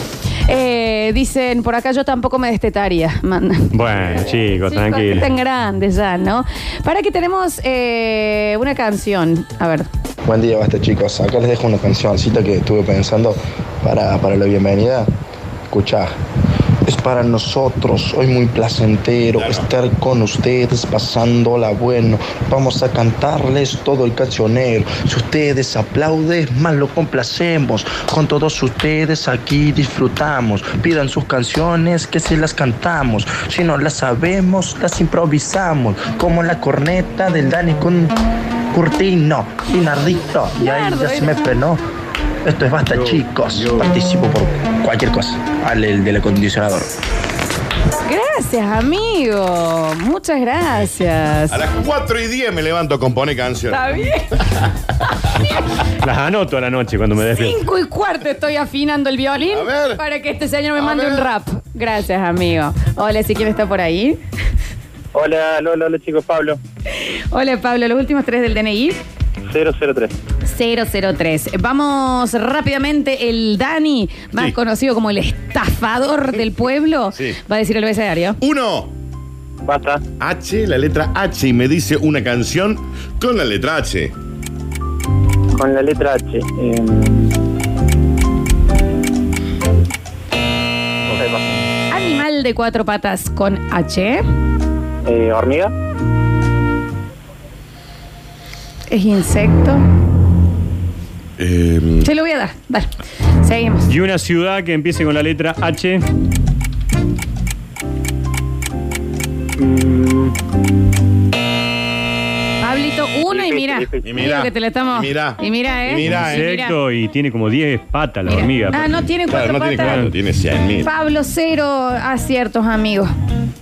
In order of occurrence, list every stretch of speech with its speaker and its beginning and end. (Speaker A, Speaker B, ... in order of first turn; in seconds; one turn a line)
Speaker A: 0.5-9.9
Speaker B: 3.7-5.3
Speaker C: 10.2-15.1
Speaker C: 15.7-16.1
Speaker C: 16.9-38.1
Speaker D: 19.4-19.7
Speaker C: 38.7-41.8
Speaker A: 40.6-41.4
Speaker C: 42.4-47.0
Speaker B: 42.9-43.9
Speaker A: 48.0-51.6
Speaker D: 51.5-54.7
Speaker A: 53.7-54.4
Speaker B: 56.0-57.6
Speaker A: 57.3-64.2
Speaker D: 59.5-60.0
Speaker D: 60.8-61.3
Speaker E: 65.1-66.6
Speaker A: 66.9-69.0
Speaker E: 69.5-70.2
Speaker A: 70.5-78.4
Speaker D: 77.1-77.4
Speaker D: 78.4-78.9
Speaker E: 79.7-80.0
Speaker D: 80.2-84.1
Speaker E: 85.5-87.3
Speaker E: 91.1-91.5
Speaker A: 91.9-94.2
Speaker E: 95.0-95.7
Speaker A: 98.9-99.8
Speaker D: 101.4-102.1
Speaker A: 102.0-103.9
Speaker B: 103.9-106.0
Speaker E: 109.6-110.3
Speaker A: 112.6-116.8
Speaker E: 113.3-114.2
Speaker D: 114.0-116.5
Speaker B: 116.1-119.0
Speaker A: 118.3-120.1
Speaker D: 119.3-120.9
Speaker B: 119.8-120.2
Speaker A: 120.8-123.1